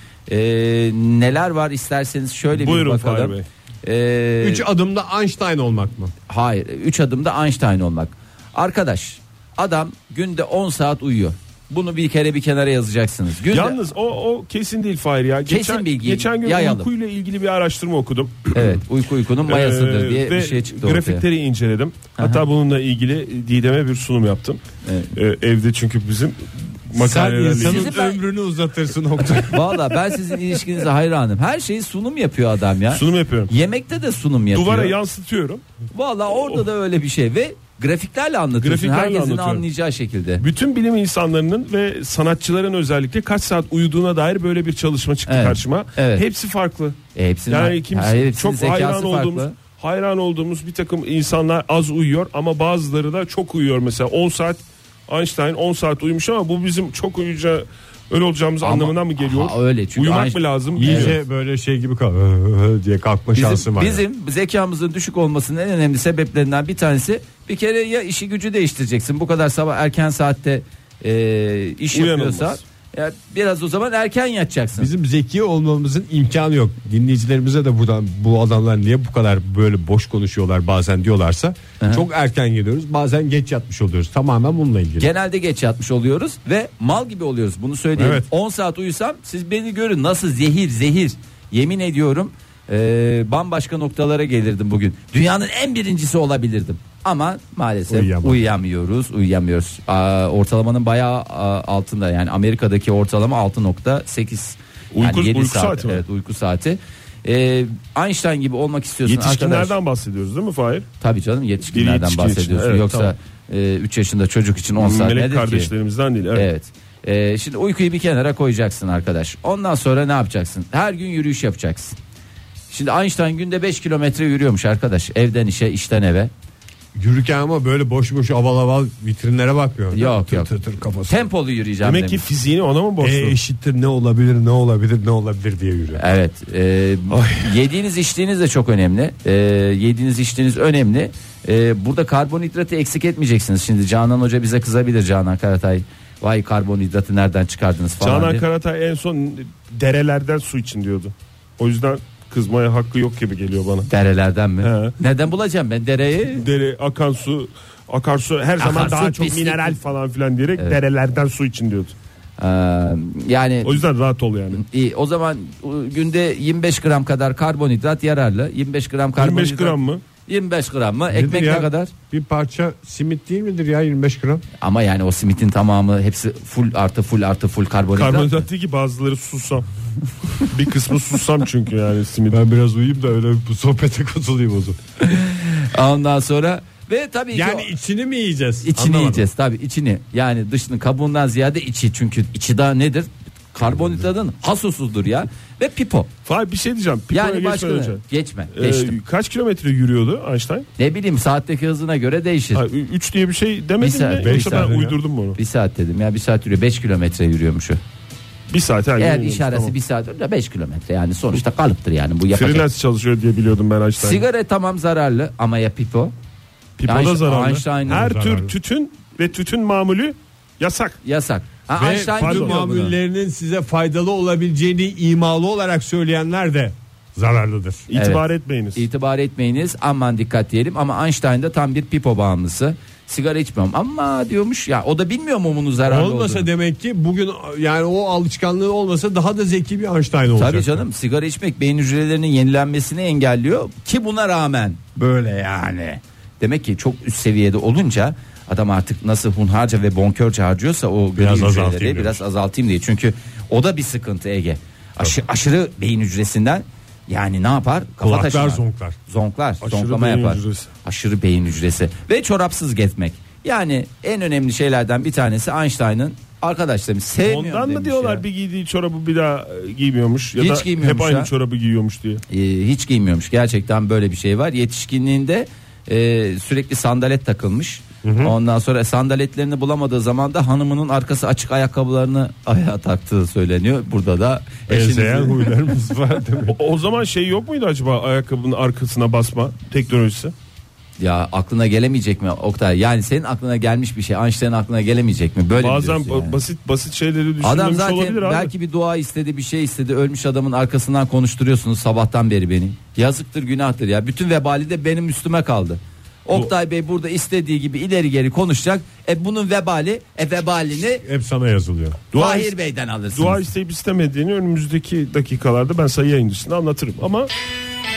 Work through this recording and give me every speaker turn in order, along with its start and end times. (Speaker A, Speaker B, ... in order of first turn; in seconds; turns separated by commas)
Speaker A: 0.3-4.7, Speaker B: 2.5-3.5, Speaker C: 4.4-6.1, Speaker A: 6.3-13.8, Speaker B: 13.5-18.8, Speaker A: 15.5-16.9, Speaker A: 18.5-21.2, Speaker B: 19.5-24.6, Speaker A: 22.2-22.4, Speaker A: 24.9-25.1, Speaker B: 25.1-27.9, Speaker C: 26.9-30.2, Speaker A: 27.4-28.2, Speaker A: 29.5-35.0, Speaker B: 32.9-33.5, Speaker B: 34.5-35.6, Speaker A: 35.9-40.5, Speaker B: 38.6-39.6, Speaker B: 40.4-47.0, Speaker A: 45.3-46.2, Speaker A: 47.1-49.5, Speaker B: 47.5-61.2, Speaker A: 58.6-61.1, Speaker C: 60.8-64.0, Speaker A: 63.4-74.9, Speaker B: 71.9-72.6, Speaker C: 74.8-85.1, Speaker A: 81.8-82.0, Speaker A: 85.0-109.8, Speaker C: 88.0-88.3, Speaker C: 97.9-98.5, Speaker B: 104.9-106.0, Speaker B: 109.1-110.9, Speaker A: 111.0-115.7, Speaker B: 111.7-113.1, Speaker B: 114.8-116.5, Speaker A: 116.3-122.0, Speaker A: 122.7-126.3, Speaker C: 127.0-131.2, Speaker A: 129.9-130.5, Speaker A: 131.1-132.2, Speaker B: 131.8-133.4, Speaker C: 133.0-136.0, Speaker A: 136.0-148.4, Speaker B: 137.1-137.5, Speaker B: 148.0-153.9, Speaker A: 153.9-156.4, Speaker B: 154.6-155.0, Speaker B: 156.4-161.9, Speaker A: 158.6-159.8, Speaker A: 162.4-163.8, Speaker B: 163.6-164.6, Speaker A: 164.5-171.9, Speaker B: 169.2-170.0, Speaker C: 171.1-174.4, Speaker A: 174.6-178.5, Speaker B: 177.9-179.7, Speaker B: 180.3-182.4, Speaker C: 182.3-184.8, Speaker A: 185.0-187.7, Speaker C: 187.3-189.3, Speaker A: 188.6-196.1, Speaker C: 193.7-194.0, Speaker B: 196.3-198.0, Speaker A: 197.1-199.0, Speaker B: 198.6-200.7, Speaker A: 200.8-202.6, Speaker B: 202.5-205.4, Speaker A: 203.8-204.8, Speaker C: 204.2-205.0, Speaker A: 205.3-207.8, Speaker B: 208.5-209.7, Speaker A: 209.0-212.7, Speaker B: 212.3-214.2, Speaker A: 214.0-216.1, Speaker B: 216.8-221.0, Speaker A: 216.9-218.1, Speaker C: 217.9-218.5, Speaker A: 221.0-223.0, Speaker C: 221.7-227.9, Speaker B: 222.2-222.6, Speaker B: 227.9-228.8, Speaker A: 227.9-228.2, Speaker A: 228.8-236.5, Speaker C: 235.8-240.9, Speaker A: 240.3-268.2, Speaker C: 251.2-252.2, Speaker C: 258.0-259.0, Speaker B: 259.6-260.7, Speaker B: 267.2-272.2, Speaker A: 270.4-271.3, Speaker A: 272.3-285.4, Speaker C: 278.0-278.4, Speaker C: 284.7-286.6, Speaker B: 286.5-290.3, Speaker A: 291.0-296.4, Speaker B: 295.6-298.5, Speaker A: 297.4-311.0, Speaker C: 311.0-312.0, Speaker B: 312.1-312.6, Speaker A: 312.1-313.4, Speaker B: 313.1-317.3